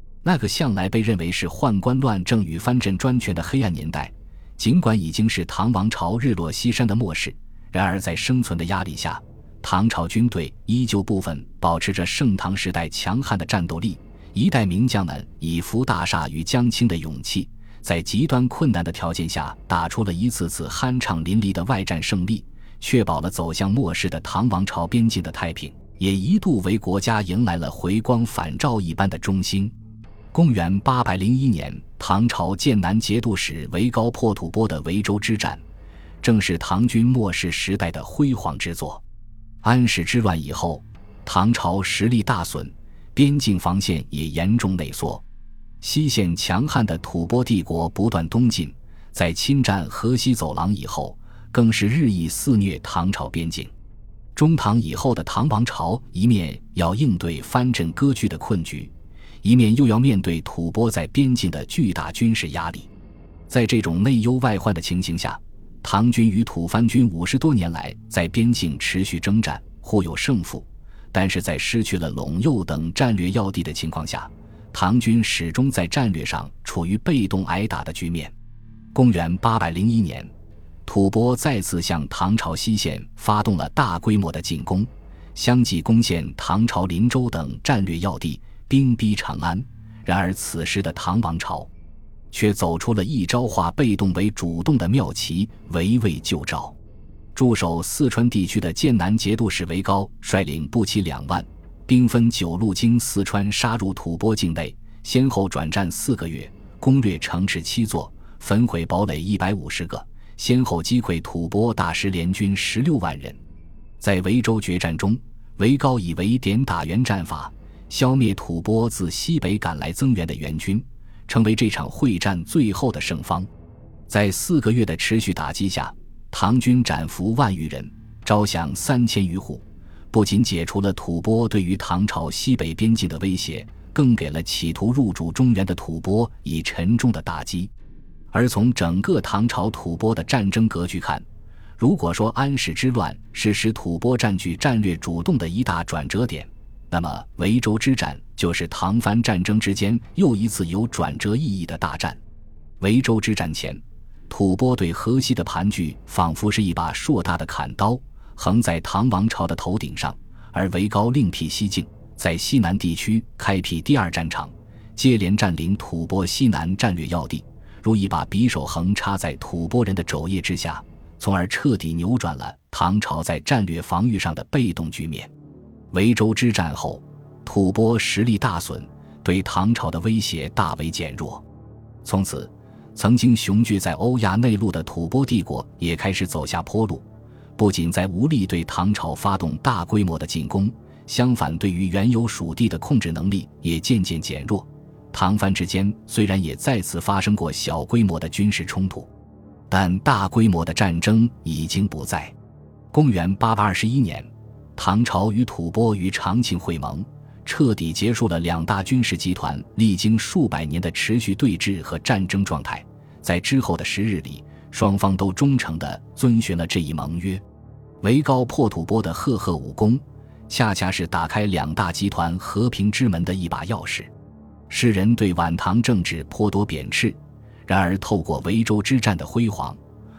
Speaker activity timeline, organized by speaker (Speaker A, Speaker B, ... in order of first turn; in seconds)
Speaker A: 0.2-29.7, 30.3-35.6, 36.2-39.0, 39.6-45.2, 45.8-53.7, 54.3-62.9, 63.5-78.3, 78.9-80.3, 80.8-91.7, 92.3-96.8, 97.3-113.4, 114.0-123.5, 124.1-137.7, 138.3-141.2, 141.8-152.2, 152.8-175.3, 175.9-181.4, 182.0-187.0, 187.6-199.1, 199.7-202.3, 202.9-217.4, 218.0-224.1, 224.7-229.8